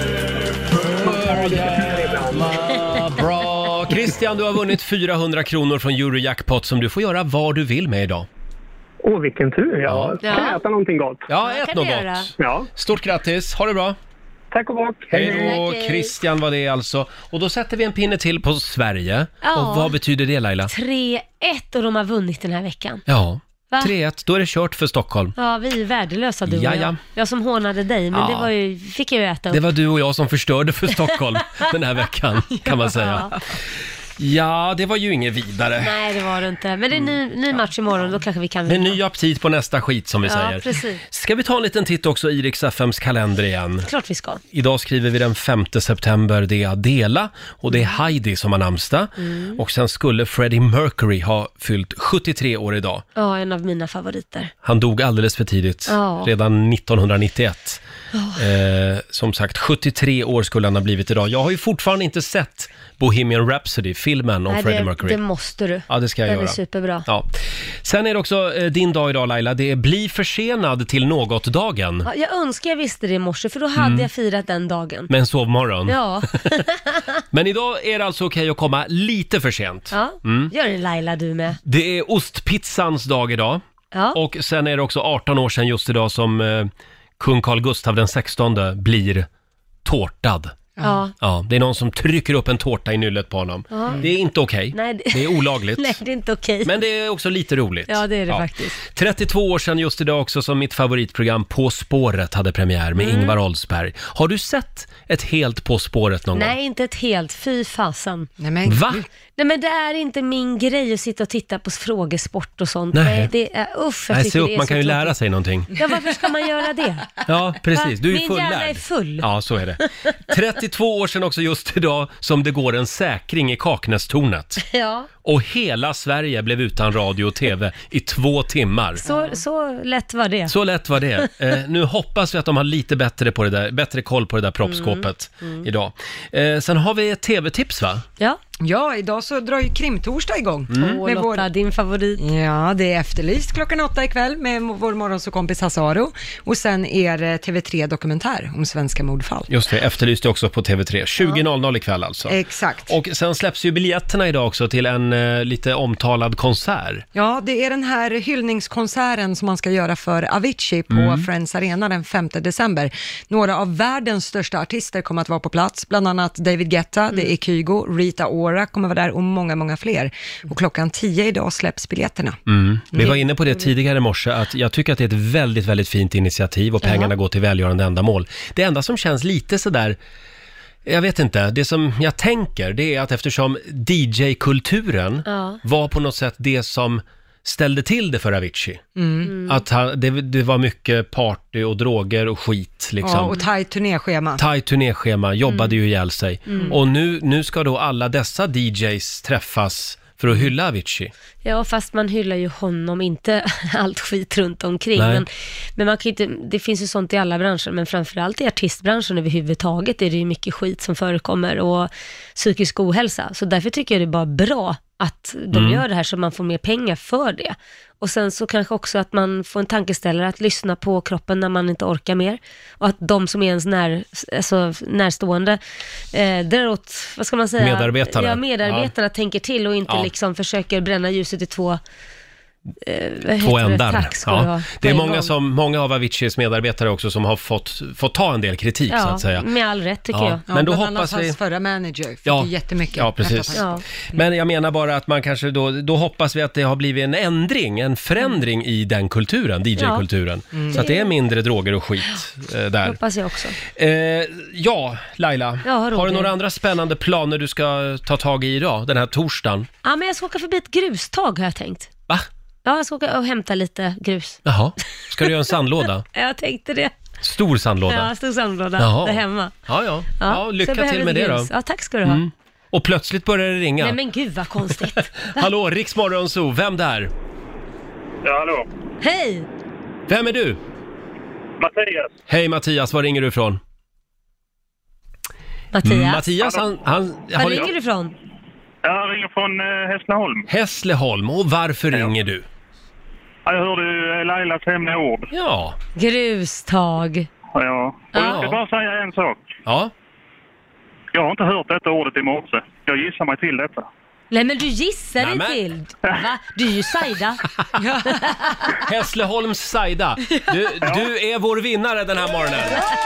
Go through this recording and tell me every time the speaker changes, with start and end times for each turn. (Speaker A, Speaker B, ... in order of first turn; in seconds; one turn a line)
Speaker A: 0.9-8.3
Speaker B: 0.9-2.5
Speaker B: 9.0-11.3
Speaker A: 9.8-10.2
Speaker C: 10.2-10.6
Speaker A: 11.3-14.0
Speaker C: 11.4-12.3
Speaker B: 12.4-12.7
Speaker B: 14.5-15.6
Speaker A: 15.1-20.7
Speaker C: 15.2-16.1
Speaker C: 19.4-20.0
Speaker C: 20.7-23.0
Speaker A: 23.1-25.4
Speaker C: 25.4-29.6
Speaker A: 26.5-27.0
Speaker A: 28.1-28.5
Speaker A: 29.5-33.3
Speaker C: 33.0-33.3
Speaker A: 34.2-35.9
Speaker C: 35.8-39.0
Speaker A: 38.7-43.9
Speaker C: 40.3-41.0
Speaker C: 43.9-44.4
Speaker A: 44.5-53.0
Speaker C: 49.2-49.6
Speaker C: 53.2-54.5
Speaker A: 54.6-57.8
Speaker C: 55.9-56.3
Speaker C: 58.1-58.4
Speaker A: 58.4-65.2
Speaker C: 64.5-67.1
Speaker A: 65.9-67.3
Speaker A: 67.8-72.1
Speaker C: 72.0-75.1
Speaker A: 73.8-74.1
Speaker A: 75.1-76.0
Speaker C: 75.9-77.2
Speaker A: 77.3-80.5
Speaker C: 79.9-81.6
Speaker A: 81.7-83.6
Speaker C: 83.9-84.2
Speaker A: 84.1-89.3
Speaker A: 89.8-90.5
Speaker C: 90.8-91.1
Speaker A: 91.2-96.0
Speaker C: 93.7-94.1
Speaker C: 94.7-96.8
Speaker A: 96.7-106.5
Speaker C: 97.9-98.8
Speaker C: 103.0-103.4
Speaker C: 106.3-108.3
Speaker D: 108.4-109.1
Speaker A: 108.7-109.0
Speaker C: 109.4-115.2
Speaker A: 112.9-113.3
Speaker A: 114.1-115.8
Speaker C: 115.8-119.3
Speaker A: 117.3-124.6
Speaker C: 124.6-125.1
Speaker A: 125.2-129.0
Speaker C: 129.0-130.5
Speaker A: 130.5-138.0
Speaker C: 134.7-135.7
Speaker D: 138.6-141.5
Speaker A: 140.7-141.0
Speaker C: 140.8-142.2
Speaker D: 142.2-149.5
Speaker A: 149.5-152.4
Speaker D: 152.3-152.9
Speaker A: 152.9-157.1
Speaker D: 157.2-172.4
Speaker A: 160.9-161.2
Speaker A: 172.5-180.0
Speaker C: 176.8-177.1
Speaker A: 180.9-188.8
Speaker C: 185.3-185.6
Speaker D: 189.0-189.3
Speaker C: 189.2-189.6
Speaker A: 189.5-193.4
Speaker D: 193.0-194.4
Speaker A: 194.4-201.1
Speaker C: 195.5-195.7
Speaker C: 196.5-196.8
Speaker C: 201.4-225.6
Speaker A: 205.0-205.2
Speaker A: 215.5-215.8
Speaker C: 226.1-231.8
Speaker A: 227.6-228.9
Speaker C: 232.8-235.3
Speaker A: 233.4-239.5
Speaker C: 238.9-240.4
Speaker A: 240.1-241.4
Speaker D: 240.5-244.2
Speaker A: 242.3-253.0
Speaker C: 243.5-243.8
Speaker C: 249.8-250.0
Speaker D: 250.5-250.8
Speaker C: 250.7-251.1
Speaker C: 252.8-253.6
Speaker A: 253.7-259.7
Speaker C: 255.7-256.3
Speaker C: 259.8-261.9
Speaker C: 262.6-264.4
Speaker A: 264.5-266.1
Speaker C: 266.1-266.9
Speaker A: 267.2-268.1
Speaker C: 267.9-269.5
Speaker A: 268.8-271.5
Speaker C: 270.2-272.2
Speaker A: 272.0-274.0
Speaker C: 273.8-275.5
Speaker A: 275.2-277.1
Speaker E: 278.2-278.7
Speaker C: 279.0-279.5
Speaker A: 280.1-280.6
Speaker E: 281.6-282.1
Speaker A: 282.3-283.6
Speaker C: 285.7-286.3
Speaker A: 285.9-287.7
Speaker E: 286.4-286.7
Speaker C: 287.4-288.1
Speaker E: 288.8-290.5
Speaker A: 290.5-292.4
Speaker E: 293.5-295.3
Speaker A: 295.3-295.8
Speaker C: 296.0-297.3
Speaker E: 297.6-299.5
Speaker A: 298.1-298.6
Speaker A: 299.7-299.9
Speaker E: 301.1-303.9
Speaker C: 304.3-307.4
Speaker A: 305.2-305.6
Speaker D: 307.8-308.2
Speaker C: 308.1-308.6
Speaker A: 308.8-312.9